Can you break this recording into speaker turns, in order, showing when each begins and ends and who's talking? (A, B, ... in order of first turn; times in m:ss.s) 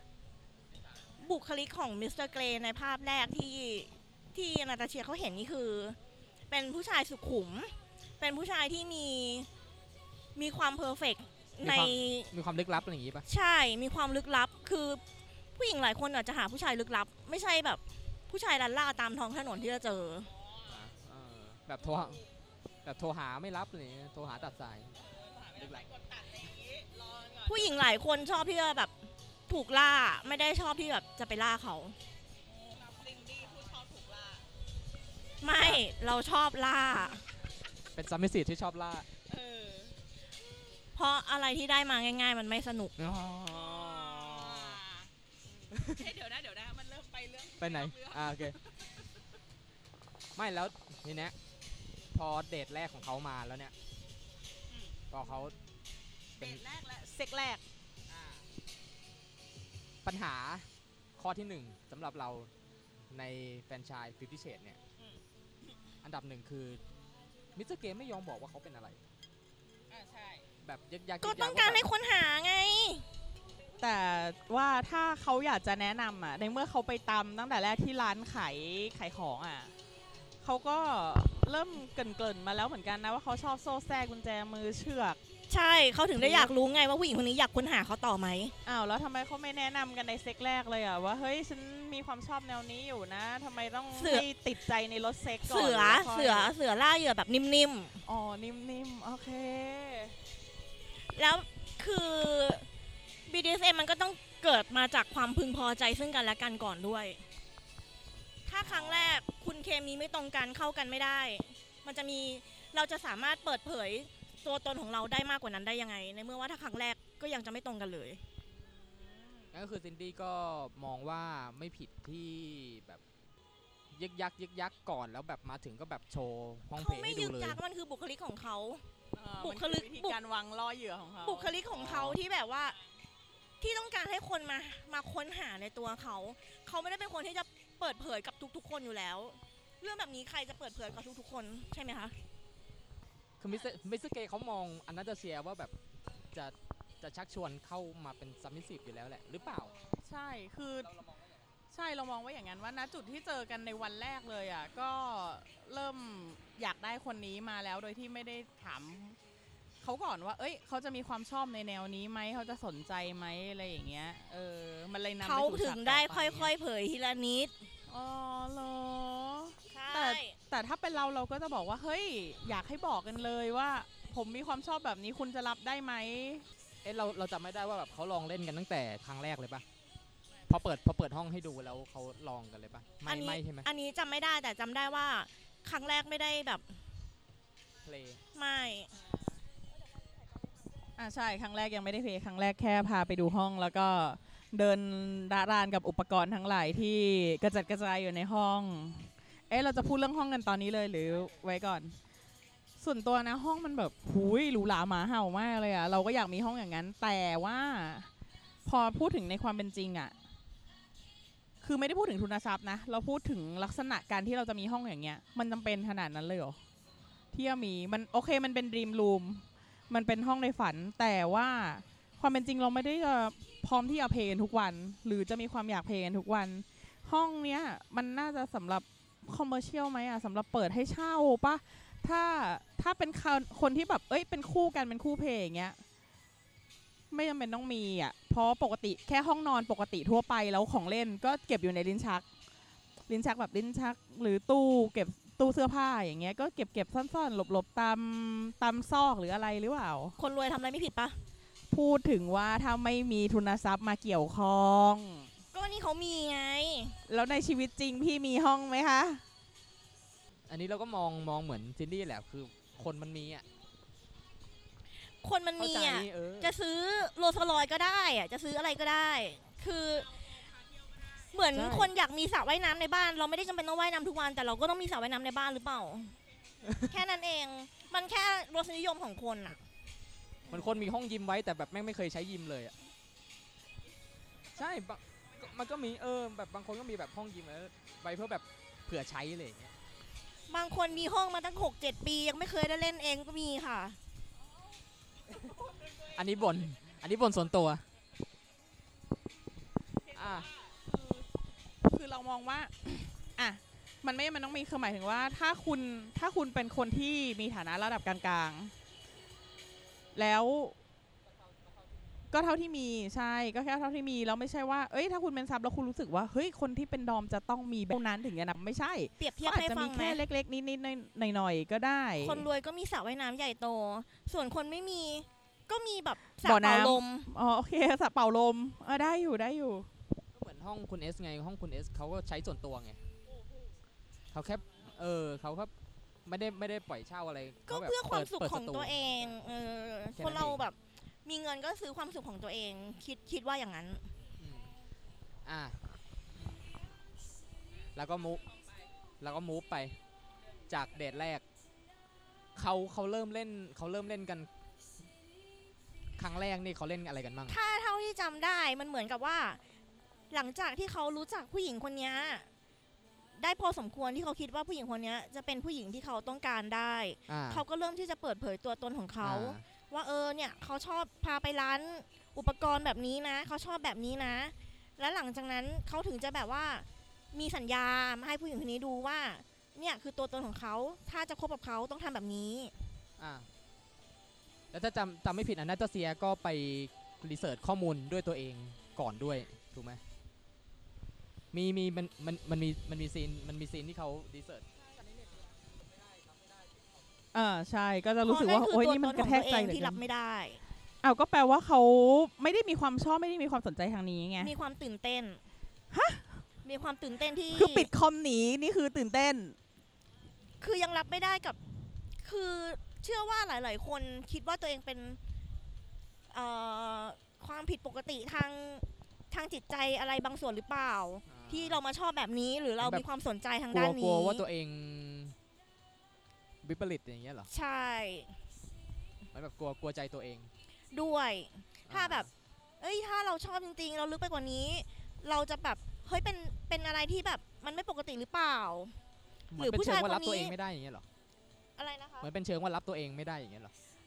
0:01.2-0:06.0 A
0:06.5-0:09.5 A
0:10.4-0:12.3 A
0:11.6-0:13.2 B
0:13.3-0:15.0 A
0:15.6-0:20.3 A
0:20.7-0:22.2 B
0:22.8-0:24.9 B
0:25.1-0:27.5 C
0:25.6-0:25.9 B
0:27.5-0:28.9 A
0:29.5-0:32.0 A
0:32.5-0:34.4 C
0:35.4-0:37.2 A
0:35.6-0:35.8 B
0:37.9-0:39.1 B
0:39.3-0:40.0 C
0:41.0-0:43.0 A
0:43.0-0:44.8 B
0:43.5-0:45.1 C
0:45.7-0:46.1 B
0:45.7-0:48.7 C
0:47.6-0:48.6 B
0:50.4-0:51.4 B
0:52.1-0:53.7 B
0:55.1-0:55.6 B
0:56.4-0:57.6 C
0:56.4-0:56.6 B
0:58.1-0:58.4 B
1:00.0-1:02.5 B
1:03.1-1:04.8 B
1:06.0-1:06.8 B
1:07.6-1:09.0 B
1:09.9-1:10.4 C
1:10.6-1:11.9 B
1:11.2-1:13.0 A
1:13.8-1:19.7 C
1:20.4-1:25.2 C
1:25.5-1:28.6 A
1:26.2-1:26.5 C
1:28.7-1:36.5 C
1:34.0-1:34.3 A
1:35.4-1:38.0 A
1:38.0-1:40.1 C
1:41.1-1:42.7 A
1:43.3-1:47.2 A
1:48.5-1:58.2 A
1:48.6-1:49.2 B
1:58.6-1:59.5 C
1:59.5-2:03.0 B
2:03.9-2:07.6 B
2:06.8-2:08.8 A
2:09.2-2:11.6 C
2:09.4-2:10.2 A
2:11.2-2:12.8 A
2:11.6-2:12.2 B
2:13.6-2:22.1 A
2:23.4-2:25.7 B
2:26.3-2:29.7 B
2:29.7-2:31.0 C
2:31.7-2:39.2 C
2:39.8-2:46.5 C
2:45.2-2:47.5 A
2:47.9-2:56.4 C
2:49.7-2:50.4 A
2:56.8-2:59.6 B
3:00.5-3:03.7 B
3:03.1-3:06.7 A
3:07.8-3:08.2 B
3:08.4-3:08.9 A
3:11.0-3:22.0 C
3:22.8-3:28.1 C
3:28.6-3:30.2 C
3:31.6-3:36.6 C
3:37.3-3:55.8 C
3:57.1-4:02.3 C
4:03.1-4:10.2 C
4:10.2-4:11.2 A
4:11.7-4:15.3 C
4:15.5-4:17.0 A
4:17.1-4:19.2 C
4:20.5-4:23.4 B
4:25.2-4:30.3 A
4:25.6-4:26.6 B
4:31.2-4:36.2 A
4:31.5-4:31.9 B
4:36.6-4:37.0 B
4:36.9-4:39.6 A
4:40.5-4:42.7 B
4:44.5-4:49.7 B
4:50.5-4:54.0 A
4:56.0-4:57.8 B
5:00.1-5:00.5 B
5:00.6-5:01.3 C
5:01.8-5:08.7 C
5:10.2-5:10.8 C
5:12.3-5:22.4 C
5:19.2-5:20.2 A
5:22.2-5:27.3 A
5:26.4-5:29.9 C
5:30.3-5:33.0 B
5:34.3-5:35.7 B
5:36.3-5:39.3 B
5:37.7-5:44.1 A
5:40.2-5:40.6 B
5:44.4-5:44.7 B
5:45.4-5:45.8 B
5:48.0-5:48.6 B
5:49.2-5:50.0 B
5:50.7-5:51.4 B
5:52.6-5:54.5 B
5:56.2-5:57.6 B
5:57.5-5:59.6 A
6:00.3-6:02.5 A
6:03.4-6:22.7 A
6:07.3-6:07.6 B
6:09.2-6:09.6 B
6:23.2-6:23.5 B
6:24.7-6:30.0 B
6:31.5-6:34.6 B
6:37.3-6:40.0 C
6:38.3-6:40.6 A
6:41.0-6:44.5 C
6:44.4-6:45.4 A
6:45.9-6:46.4 C
6:46.6-6:47.9 A
6:47.5-6:49.6 C
6:50.6-6:51.6 A
6:52.2-6:55.2 A
6:56.3-7:04.4 A
7:01.3-7:01.8 B
7:02.8-7:03.1 B
7:03.7-7:05.4 B
7:06.6-7:07.5 B
7:07.5-7:08.4 A
7:09.3-7:10.5 B
7:10.9-7:12.3 A
7:11.9-7:12.3 B
7:12.8-7:19.0 A
7:19.5-7:21.0 B
7:19.6-7:20.6 A
7:21.8-7:22.3 A
7:22.2-7:23.7 B